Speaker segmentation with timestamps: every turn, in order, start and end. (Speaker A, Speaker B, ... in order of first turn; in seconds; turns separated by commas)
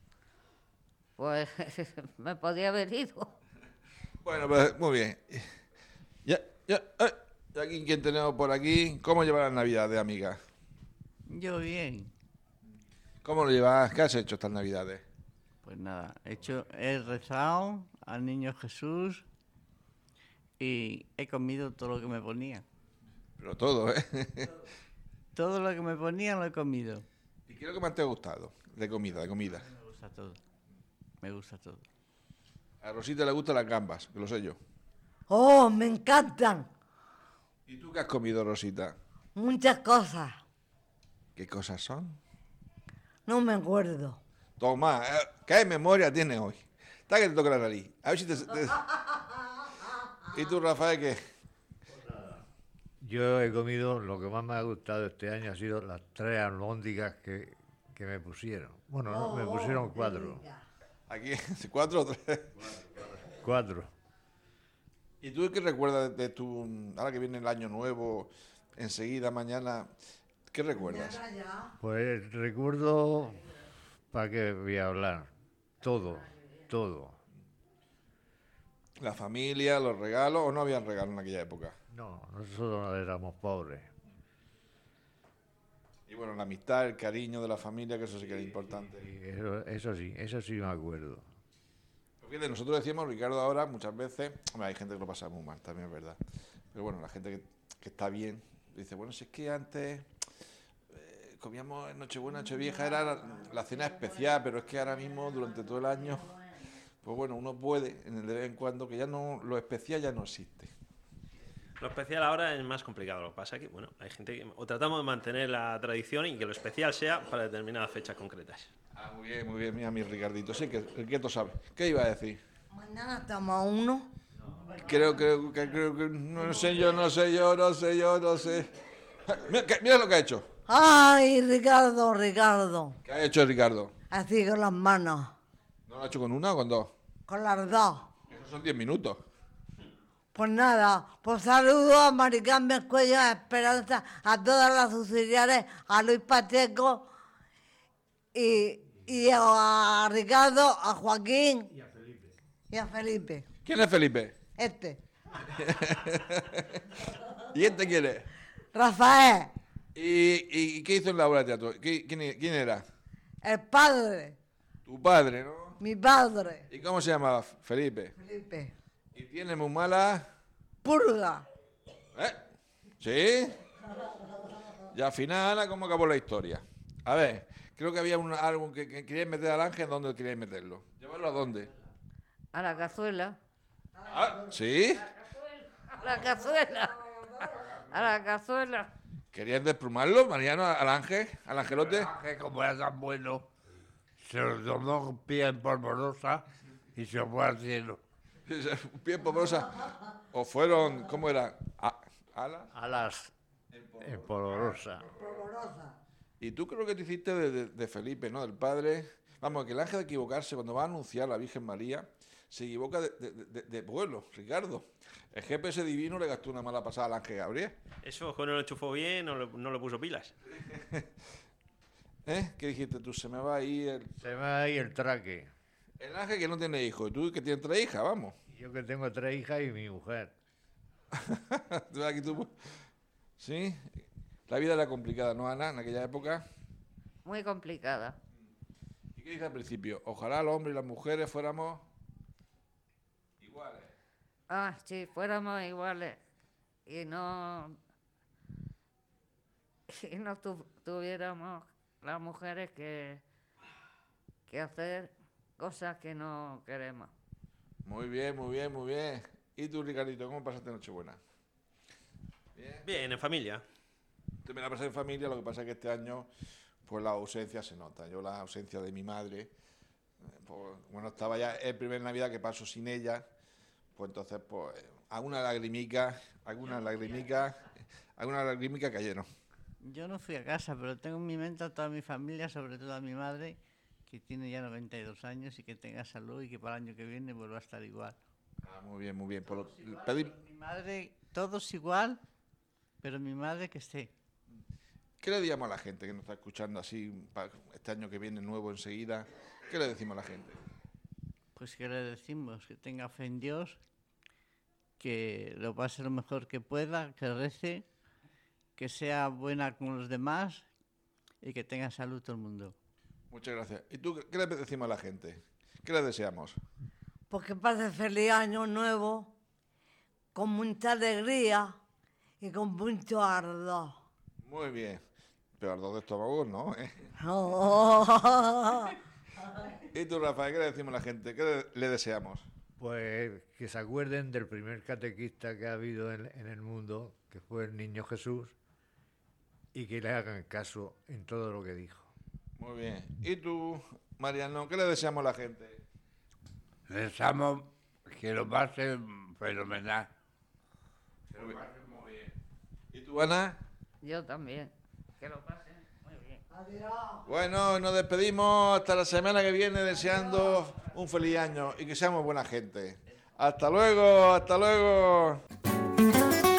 Speaker A: 1.2-3.3, Speaker B: 4.2-5.5, Speaker B: 6.2-10.4, Speaker C: 11.3-12.1, Speaker B: 13.2-15.0, Speaker C: 15.6-19.2, Speaker C: 20.6-22.6, Speaker B: 23.4-24.5, Speaker C: 25.4-27.1, Speaker B: 27.5-29.7, Speaker C: 29.2-30.4, Speaker C: 31.2-31.9, Speaker B: 32.8-34.6, Speaker D: 35.3-36.7, Speaker B: 37.7-39.0, Speaker D: 39.4-40.4, Speaker B: 41.4-42.2, Speaker D: 43.3-44.2, Speaker B: 44.6-48.8, Speaker B: 50.3-51.2, Speaker E: 51.9-52.4, Speaker E: 53.0-60.4, Speaker D: 59.1-60.6, Speaker B: 61.1-62.7, Speaker E: 62.8-63.9, Speaker B: 65.2-69.9, Speaker B: 70.5-71.2, Speaker D: 70.8-71.8, Speaker E: 71.8-73.5, Speaker E: 74.1-77.2, Speaker A: 76.2-76.6, Speaker B: 79.0-81.8, Speaker E: 81.9-83.9, Speaker B: 86.1-89.1, Speaker E: 89.0-91.2, Speaker B: 92.2-96.2, Speaker B: 96.7-100.1, Speaker B: 100.9-106.4, Speaker B: 107.0-110.7, Speaker F: 111.8-118.7, Speaker B: 119.0-122.4, Speaker D: 122.7-124.1, Speaker B: 124.7-128.7, Speaker B: 129.3-130.5, Speaker D: 130.7-133.0, Speaker B: 133.1-133.9, Speaker D: 134.1-135.3, Speaker B: 135.9-136.9, Speaker D: 137.3-138.1, Speaker B: 138.3-139.2, Speaker D: 140.3-147.1, Speaker D: 148.3-151.7, Speaker D: 152.7-153.4, Speaker B: 153.7-154.3, Speaker D: 154.6-155.0, Speaker B: 155.5-156.8, Speaker B: 157.5-158.3, Speaker D: 158.7-159.5, Speaker B: 159.9-162.8, Speaker D: 163.4-164.4, Speaker B: 164.9-165.8, Speaker D: 165.8-166.7, Speaker B: 166.7-168.1, Speaker D: 168.2-168.7, Speaker B: 169.2-170.3, Speaker D: 170.8-171.5, Speaker B: 172.2-172.4, Speaker B: 173.0-173.6, Speaker B: 174.9-181.7, Speaker A: 182.5-183.4, Speaker B: 184.0-185.1, Speaker A: 185.1-187.2, Speaker A: 187.9-188.9, Speaker B: 189.3-192.1, Speaker G: 191.7-193.5, Speaker G: 194.2-198.0, Speaker B: 198.5-202.7, Speaker E: 202.7-203.3, Speaker B: 203.7-204.7, Speaker E: 204.0-205.1, Speaker D: 205.2-206.0, Speaker B: 206.4-217.8, Speaker F: 218.0-220.3, Speaker B: 220.6-221.1, Speaker B: 222.3-224.2, Speaker E: 224.2-225.5, Speaker B: 226.0-228.4, Speaker E: 228.5-230.3, Speaker B: 231.1-232.5, Speaker B: 233.4-233.9, Speaker B: 234.5-236.4, Speaker A: 237.2-238.2, Speaker B: 239.2-241.9, Speaker B: 243.4-243.9, Speaker A: 244.5-246.2, Speaker A: 246.9-247.8, Speaker A: 249.9-253.2, Speaker A: 254.5-257.1, Speaker B: 257.9-261.2, Speaker B: 262.6-262.9, Speaker F: 262.8-263.6, Speaker B: 264.4-266.3, Speaker B: 266.9-269.5, Speaker B: 270.4-273.2, Speaker B: 274.0-277.6, Speaker B: 278.2-279.3, Speaker C: 279.8-288.2, Speaker B: 288.6-290.3, Speaker C: 289.4-292.2, Speaker C: 293.0-294.1, Speaker B: 295.2-300.6, Speaker C: 301.6-303.8, Speaker C: 305.0-307.9, Speaker C: 308.8-310.7, Speaker C: 311.4-312.8, Speaker B: 313.3-316.6, Speaker D: 317.3-319.3, Speaker D: 320.4-321.8, Speaker D: 322.4-323.9, Speaker B: 324.4-325.0, Speaker B: 325.6-326.9, Speaker D: 327.2-329.0, Speaker B: 329.9-332.5, Speaker E: 332.8-338.6, Speaker E: 339.7-342.1, Speaker B: 342.6-345.8, Speaker G: 346.9-350.1, Speaker G: 351.3-352.3, Speaker B: 352.9-353.6, Speaker A: 354.0-356.4, Speaker D: 356.5-357.2, Speaker B: 357.3-365.4